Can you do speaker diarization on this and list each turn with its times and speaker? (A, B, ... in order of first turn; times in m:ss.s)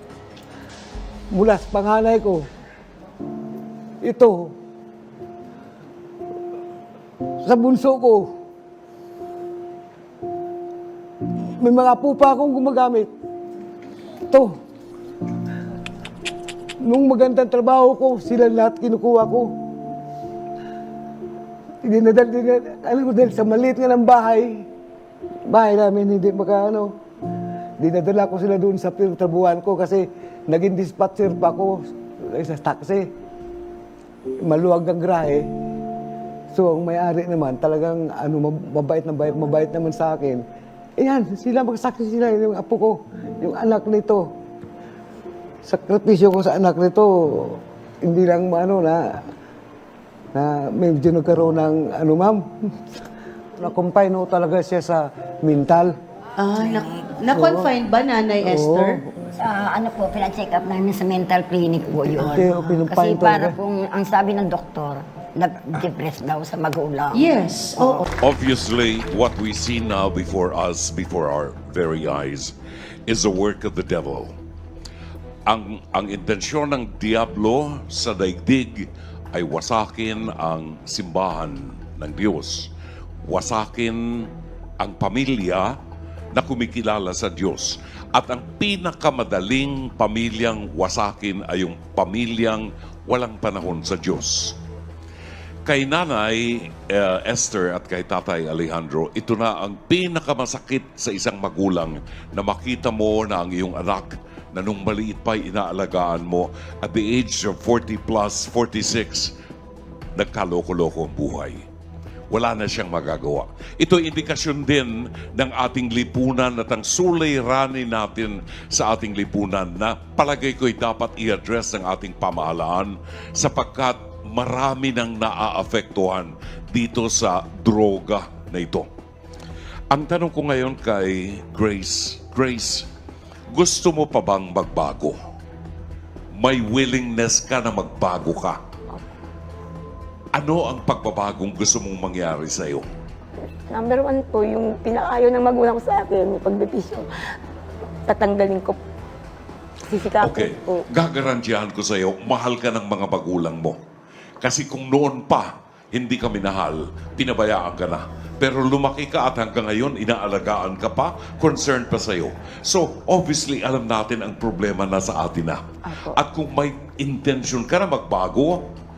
0:01.3-0:02.4 A
0:04.0-0:04.5 A
0:07.4-0:08.3 A
0:11.6-0:13.1 A
0:14.3-0:14.5 A
0:16.8-0:19.5 A
0:21.8-0:24.6 A
0:25.5-0:26.9 A
0:27.8-0:33.1 A
0:34.4-0:35.4 A
0:36.5-0:40.4 A
0:41.0-0:44.3 A
0:45.6-0:49.2 A
0:50.3-0:52.5 A
0:53.6-0:55.9 A
0:56.4-0:59.0 B
0:57.3-0:57.7 A
0:58.4-0:59.1 A
0:59.4-1:07.2 C
1:02.1-1:03.6 A
1:02.2-1:02.7 B
1:07.1-1:08.0 B
1:08.2-1:12.5 D
1:13.1-1:14.3 D
1:15.5-1:22.7 D
1:23.2-1:24.3 D
1:24.8-1:25.7 D
1:26.3-1:34.6 D
1:35.6-1:49.3 D
1:50.2-1:51.6 D
1:52.3-2:08.9 D
2:09.9-2:12.8 D
2:13.5-2:15.2 D
2:16.3-2:18.6 D
2:20.3-2:22.8 D
2:23.7-2:27.0 E
2:28.1-2:28.8 E
2:29.8-2:30.8 E
2:30.2-2:33.8 D
2:34.4-2:48.6 D
2:45.8-2:46.2 E